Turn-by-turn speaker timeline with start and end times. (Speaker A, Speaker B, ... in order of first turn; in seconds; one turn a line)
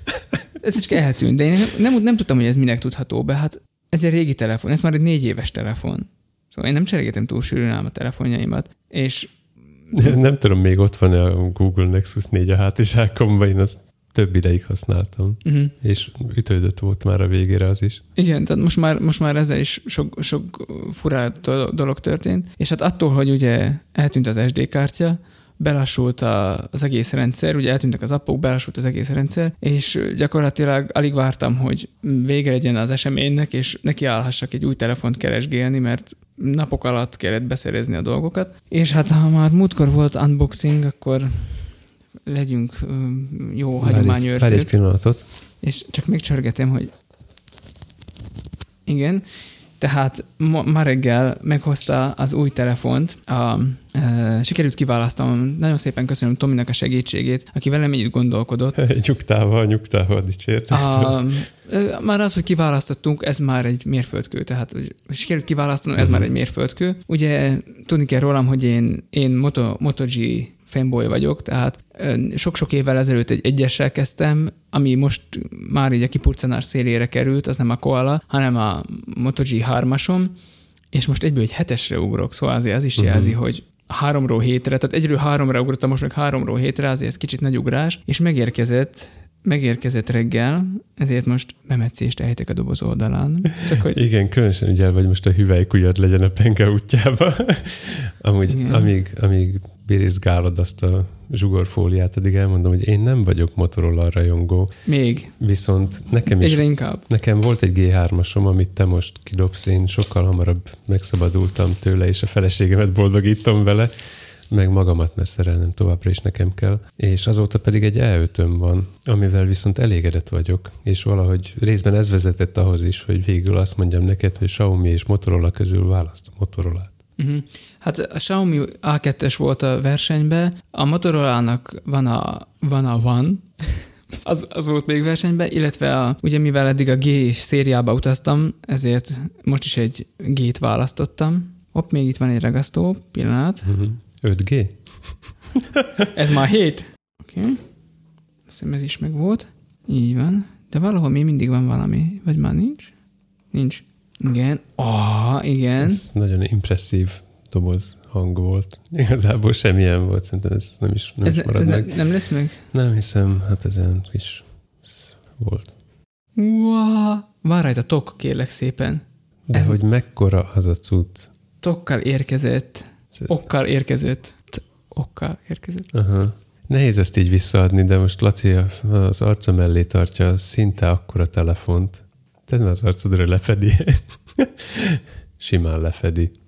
Speaker A: 0.6-10.2
Speaker B: 9.9-18.0
Speaker A: 15.4-15.7
Speaker A: 18.1-41.7
Speaker A: 42.3-44.7
Speaker B: 43.8-45.2
Speaker A: 45.6-46.9
Speaker A: 48.9-49.2
Speaker A: 49.8-58.8
Speaker B: 58.7-61.3
Speaker A: 60.7-80.3
Speaker B: 66.0-66.3
Speaker A: 80.9-94.0
Speaker B: 83.0-83.4
Speaker B: 93.7-104.7
Speaker A: 98.5-98.9
Speaker A: 104.8-105.3
Speaker B: 105.4-126.9
Speaker A: 106.3-107.0
Speaker A: 127.2-143.7
Speaker B: 143.6-146.1
Speaker A: 146.1-147.6
Speaker A: 148.5-152.9
Speaker A: 153.5-156.0
Speaker B: 155.8-162.0
Speaker A: 161.2-162.6
Speaker B: 162.7-165.7
Speaker A: 166.3-169.8
Speaker B: 169.5-171.3
Speaker A: 171.6-175.9
Speaker B: 175.9-186.3